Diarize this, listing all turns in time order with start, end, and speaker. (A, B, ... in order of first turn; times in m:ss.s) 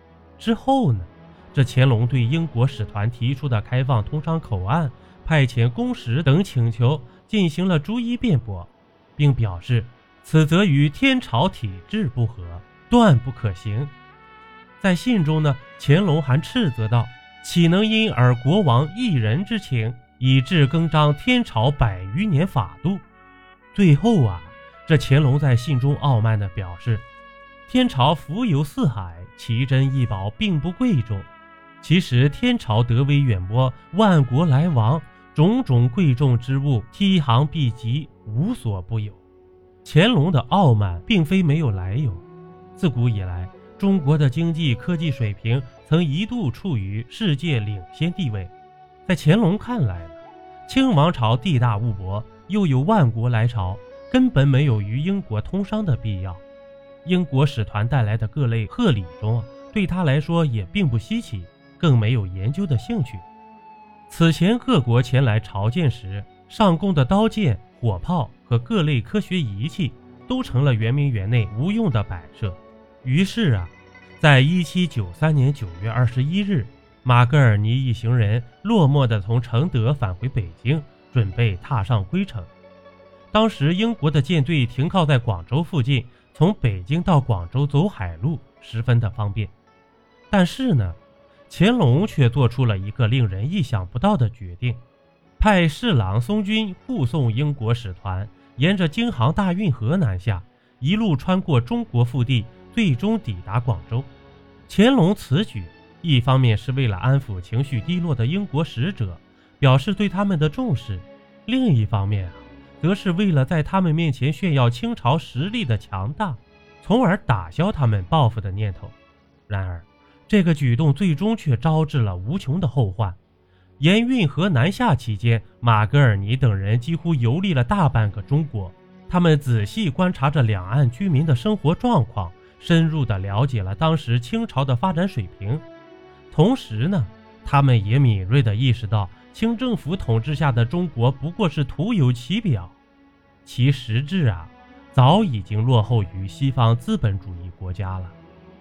0:00.4-0:13.9 A
0:14.8-0:23.0 A
0:23.7-0:27.0 A
0:27.7-0:31.3 A
0:31.8-0:39.2 A
0:39.8-0:42.2 A
0:42.8-0:48.5 A
0:49.1-0:56.4 A
0:57.0-1:03.2 A
1:04.1-1:22.5 A
1:23.3-1:29.5 A
1:30.3-1:34.8 A
1:35.4-1:44.1 A
1:44.7-1:58.9 A
1:59.5-2:03.2 A
2:03.8-2:15.6 A
2:16.3-2:22.8 A
2:23.4-2:28.1 A